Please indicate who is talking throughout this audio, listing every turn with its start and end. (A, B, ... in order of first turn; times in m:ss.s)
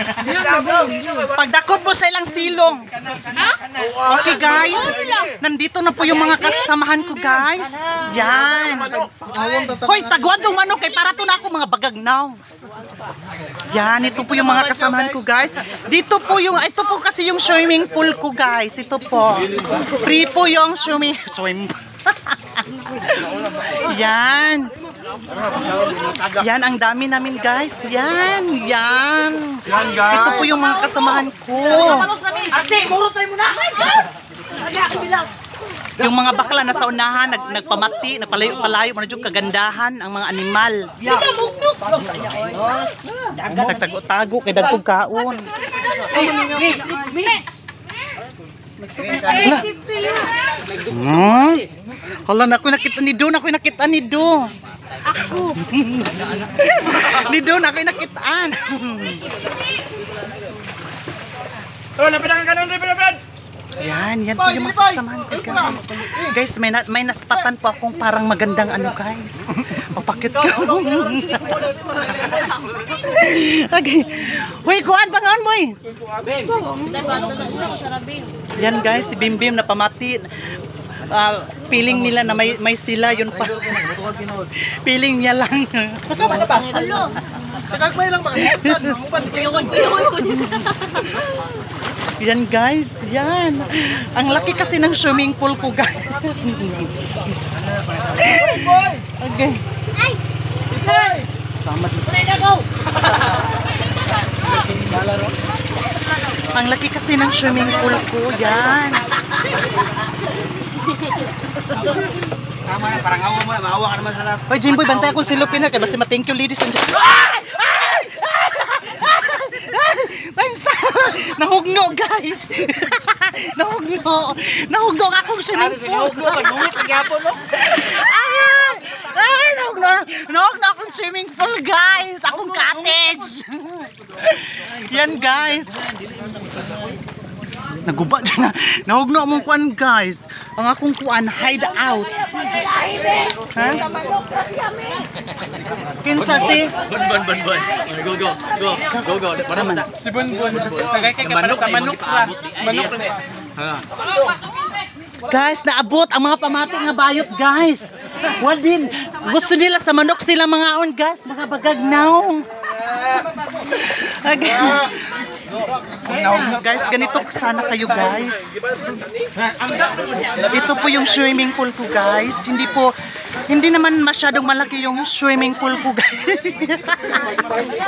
0:00.2-0:01.1 A
0:01.2-0:02.9 B
0:03.3-0:03.6 C
0:04.0-0:12.4 B
0:04.4-0:05.3 C
0:09.1-0:09.8 A
0:13.7-0:24.7 B
0:26.3-0:32.1 B
0:31.7-0:34.0 C
0:32.7-0:34.0 A
0:34.7-0:35.2 C
0:36.0-0:40.9 B
0:41.0-0:42.9 C
0:43.4-0:43.6 A
0:43.5-0:45.5 B
0:45.8-0:47.5 C
0:46.3-0:46.9 A
0:48.9-0:49.4 A
0:49.0-0:50.4 C
0:49.3-0:49.7 B
0:50.8-0:51.7 B
0:52.2-0:54.5 B
0:55.1-0:55.6 C
0:55.4-0:59.4 B
1:02.0-1:03.2 A
1:03.8-1:15.8 B
1:16.2-1:17.1 A
1:16.5-1:18.5 C
1:18.5-1:20.3 B
1:21.0-1:27.1 B
1:23.7-1:24.5 A
1:26.2-1:26.7 A
1:26.4-1:27.2 C
1:27.7-1:29.9 A
1:28.4-1:29.0 B
1:29.2-1:31.3 C
1:29.8-1:31.3 B
1:32.2-1:37.4 B
1:38.1-1:39.6 B
1:38.3-1:39.0 A
1:40.8-1:42.5 B
1:40.8-1:41.2 C
1:40.9-1:41.2 A
1:42.2-1:42.6 C
1:44.8-1:45.3 A
1:46.5-1:49.0 B
1:52.7-1:54.6 A
1:54.5-2:15.9 B
2:05.7-2:07.4 A
2:17.8-2:22.3 B
2:22.3-2:25.1 C
2:23.5-2:23.9 B
2:26.0-2:26.7 B
2:26.8-2:29.4 D
2:28.7-2:29.9 B
2:30.0-2:33.1 A
2:31.2-2:33.0 D
2:35.3-2:42.5 B
2:43.6-2:45.2 B
2:46.0-2:48.5 B
2:50.4-2:52.9 B
2:53.5-2:57.6 B